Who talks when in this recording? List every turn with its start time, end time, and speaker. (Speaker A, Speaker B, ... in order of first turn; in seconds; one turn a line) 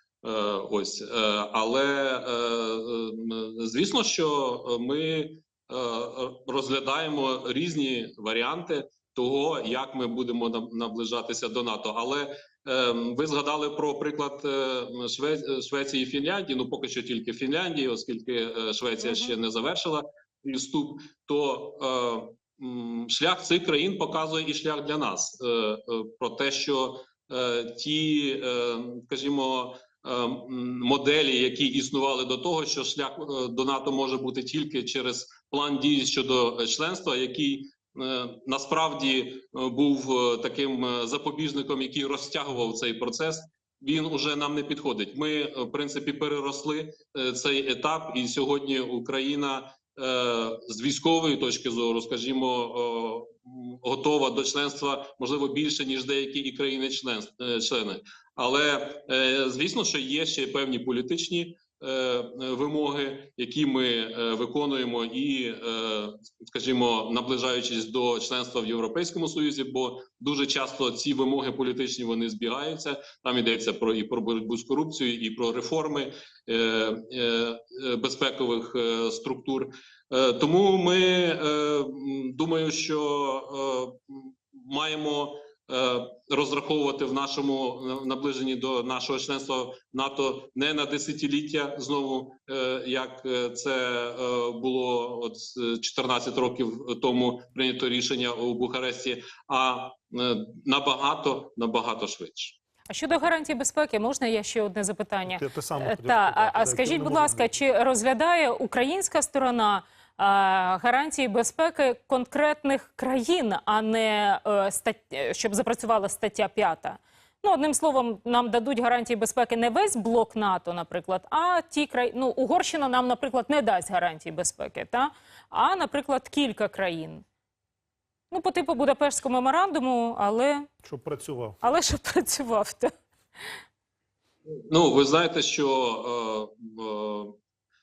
Speaker A: 0.2-102.6
Speaker B: 102.9-127.2
Speaker C: 105.3-107.5
Speaker B: 128.3-130.7
Speaker C: 130.8-131.6
Speaker B: 131.6-132.9
Speaker A: 134.5-137.4